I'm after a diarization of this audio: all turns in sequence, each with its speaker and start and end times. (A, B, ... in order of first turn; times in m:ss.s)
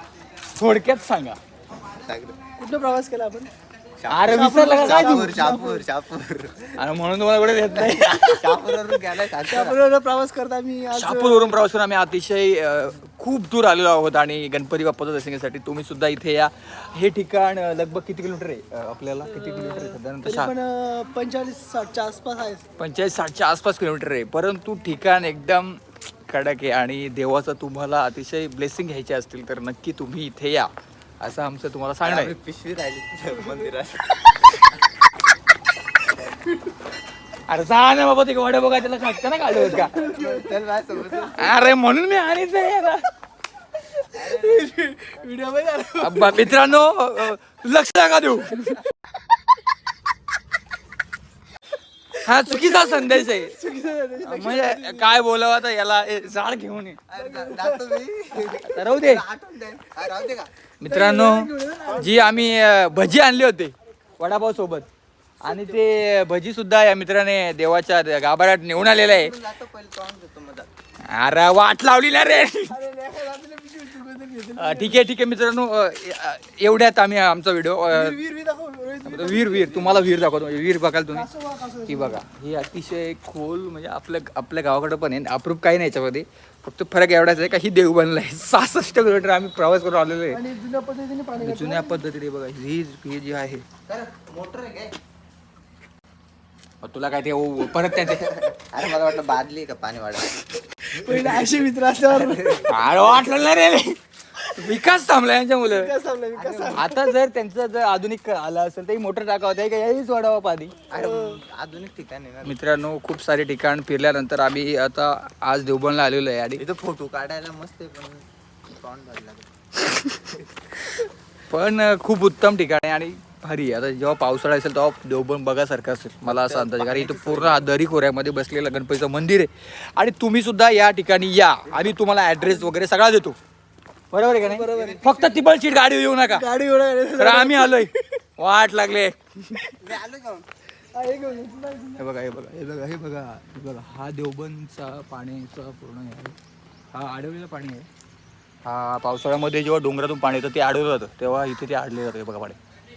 0:00.4-0:01.4 A
0:01.8-0:02.4 B
0:02.6-0:03.5 C
0:04.0-0:06.7 B
0:04.1-0:05.4 A
0:04.3-0:05.8 C
0:06.7-0:08.2 A
0:07.7-0:09.8 B
0:08.1-0:08.6 C
0:09.4-0:11.6 C
0:11.0-0:20.5 A
0:19.4-0:22.6 C
0:22.8-0:32.3 A
0:32.0-0:34.3 B
0:37.5-0:40.0 A
0:39.8-0:40.5 C
0:39.9-0:41.6 B
0:41.4-0:43.1 A
0:44.2-0:44.8 B
0:44.2-0:46.5 C
0:46.0-0:48.8 A
0:52.2-0:53.6 A
0:52.5-0:55.2 C
0:54.2-0:57.0 A
0:57.1-1:00.7 B
0:57.2-0:57.9 C
0:58.4-0:59.2 A
1:00.8-1:04.9 A
1:00.8-1:02.4 C
1:05.4-1:09.3 A
1:08.8-1:10.7 B
1:11.1-1:12.8 A
1:12.7-1:15.0 C
1:14.6-1:18.2 A
1:17.9-1:20.0 C
1:19.0-1:21.3 A
1:21.1-1:22.2 C
1:21.8-1:30.4 A
1:30.3-1:32.0 C
1:31.3-1:33.7 A
1:33.9-1:35.0 B
1:36.8-1:38.5 A
1:38.2-1:40.4 B
1:40.9-1:42.7 C
1:42.2-1:43.1 B
1:42.7-1:45.9 A
1:45.6-1:47.0 C
1:46.3-1:47.0 B
1:46.7-1:50.8 A
1:50.9-1:52.6 B
1:50.9-1:51.4 C
1:52.4-1:56.6 A
1:56.5-1:59.5 B
1:59.9-2:00.2 A
2:01.0-2:13.4 A
2:06.2-2:07.7 B
2:14.1-2:16.5 A
2:14.4-2:15.0 C
2:14.8-2:15.4 B
2:16.3-2:17.9 C
2:17.1-2:19.7 A
2:19.8-2:20.5 B
2:20.9-2:22.0 C
2:22.0-2:26.4 A
2:26.9-2:27.9 A
2:28.6-2:32.6 A